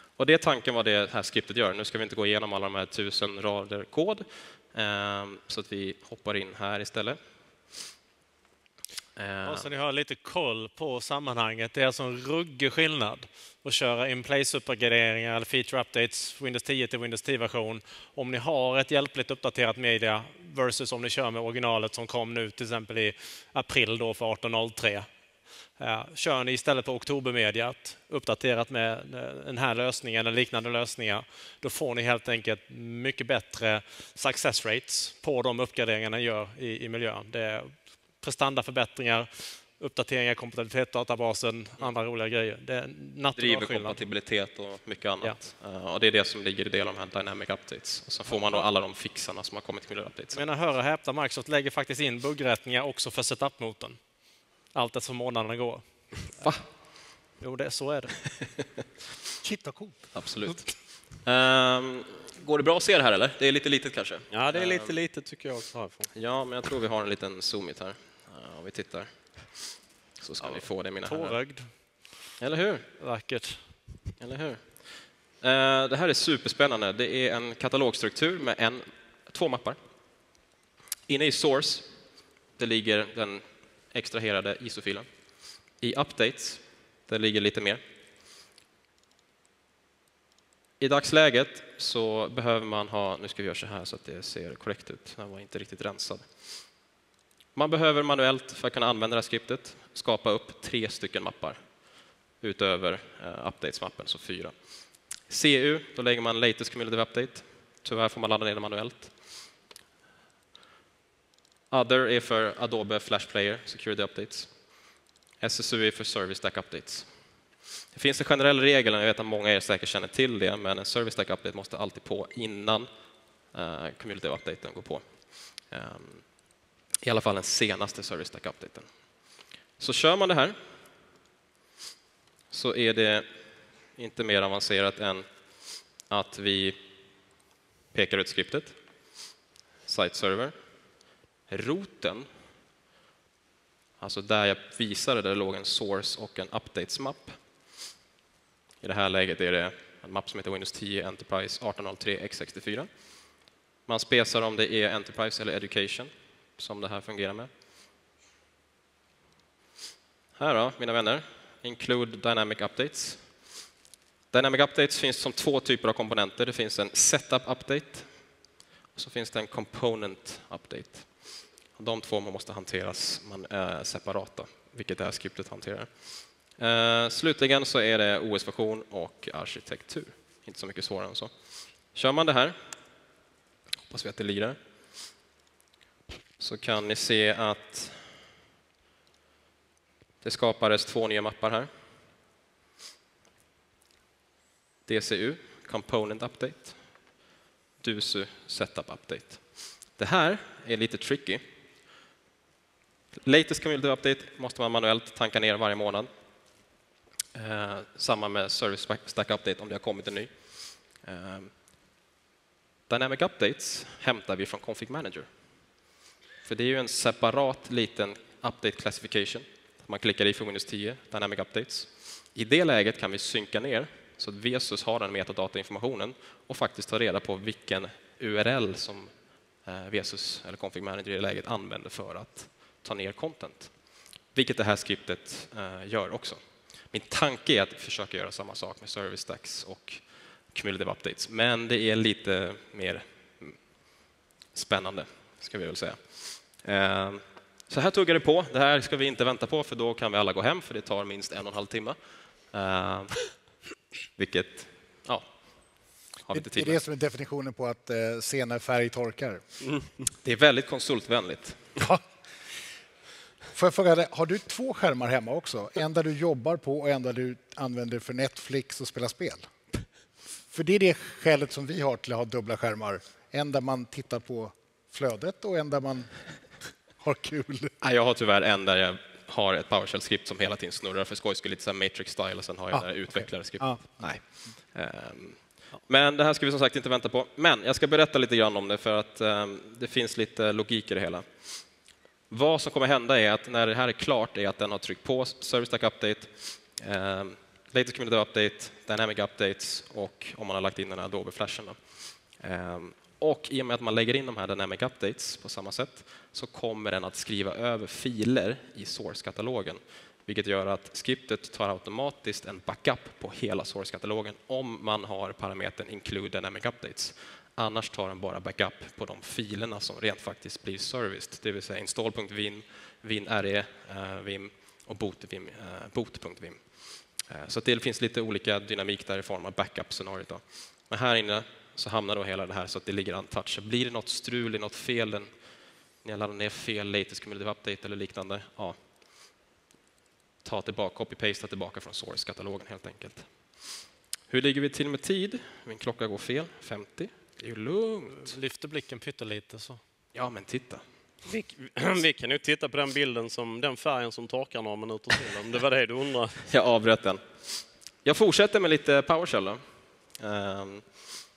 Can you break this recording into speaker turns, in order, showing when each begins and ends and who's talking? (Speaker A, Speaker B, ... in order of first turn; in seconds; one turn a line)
Speaker A: 0.2-7.2
Speaker A: 9.2-9.7
Speaker B: 9.4-25.1
Speaker B: 25.8-44.0
Speaker A: 43.3-50.4
Speaker B: 48.3-48.6
Speaker B: 50.3-54.0
Speaker B: 54.7-55.8
Speaker B: 57.4-58.2
Speaker C: 59.4-60.1
Speaker A: 60.1-64.9
Speaker D: 64.3-66.1
Speaker A: 66.1-69.5
Speaker A: 70.2-71.4
Speaker B: 70.4-71.7
Speaker A: 72.4-72.9
Speaker B: 73.0-73.6
Speaker A: 74.2-74.7
Speaker A: 75.4-79.8
Speaker A: 81.1-81.9
Speaker A: 82.6-85.1
Speaker A: 85.8-87.8
Speaker A: 90.8-96.2
Speaker A: 97.5-101.6
Speaker A: 102.4-104.5
Speaker A: 105.3-109.1
Speaker A: 111.7-114.5
Speaker A: 115.4-117.1
Speaker A: 117.9-122.9
Speaker A: 123.5-125.0
Speaker A: 125.7-126.2
Speaker A: 127.0-128.8
Speaker A: 129.8-130.6
Speaker A: 132.5-133.3
Speaker A: 133.9-135.2
Speaker A: 136.1-136.8
Speaker A: 137.9-138.8
Speaker A: 139.8-140.5
Speaker A: 141.5-142.3
Speaker A: 144.0-147.4
Speaker A: 148.8-152.9
Speaker A: 153.9-157.5
Speaker A: 160.4-163.2
Speaker A: 164.3-168.1
Speaker A: 168.9-171.1
Speaker A: 171.8-175.9
Speaker A: 176.6-181.3
Speaker A: 181.9-182.6
Speaker A: 183.9-184.6
Speaker A: 186.4-188.0
Speaker A: 190.2-191.7
Speaker A: 194.8-196.8
Speaker A: 197.8-199.4
Speaker A: 200.0-201.4
Speaker A: 203.2-206.1
Speaker A: 207.3-210.3
Speaker A: 211.0-211.5
Speaker A: 212.9-215.3
Speaker A: 216.4-229.1
Speaker A: 229.7-233.7
Speaker A: 234.3-236.4
Speaker A: 236.9-240.0
Speaker A: 240.5-243.6
Speaker A: 244.5-252.0
Speaker A: 252.5-253.3
Speaker A: 254.2-255.2
Speaker A: 256.3-256.8
Speaker C: 256.3-259.4
Speaker A: 260.2-261.6
Speaker C: 263.5-269.5
Speaker C: 270.5-276.1
Speaker C: 277.0-277.7
Speaker A: 277.8-284.2
Speaker C: 282.7-284.1
Speaker A: 284.7-291.3
Speaker A: 292.3-301.8
Speaker A: 302.4-326.6
Speaker A: 327.3-335.3
Speaker A: 336.0-338.8
Speaker A: 340.4-343.3
Speaker A: 344.3-348.3
Speaker B: 348.2-349.8
Speaker A: 350.1-350.8
Speaker D: 351.2-356.4
Speaker A: 356.5-357.2
Speaker A: 358.0-359.6
Speaker A: 360.2-360.8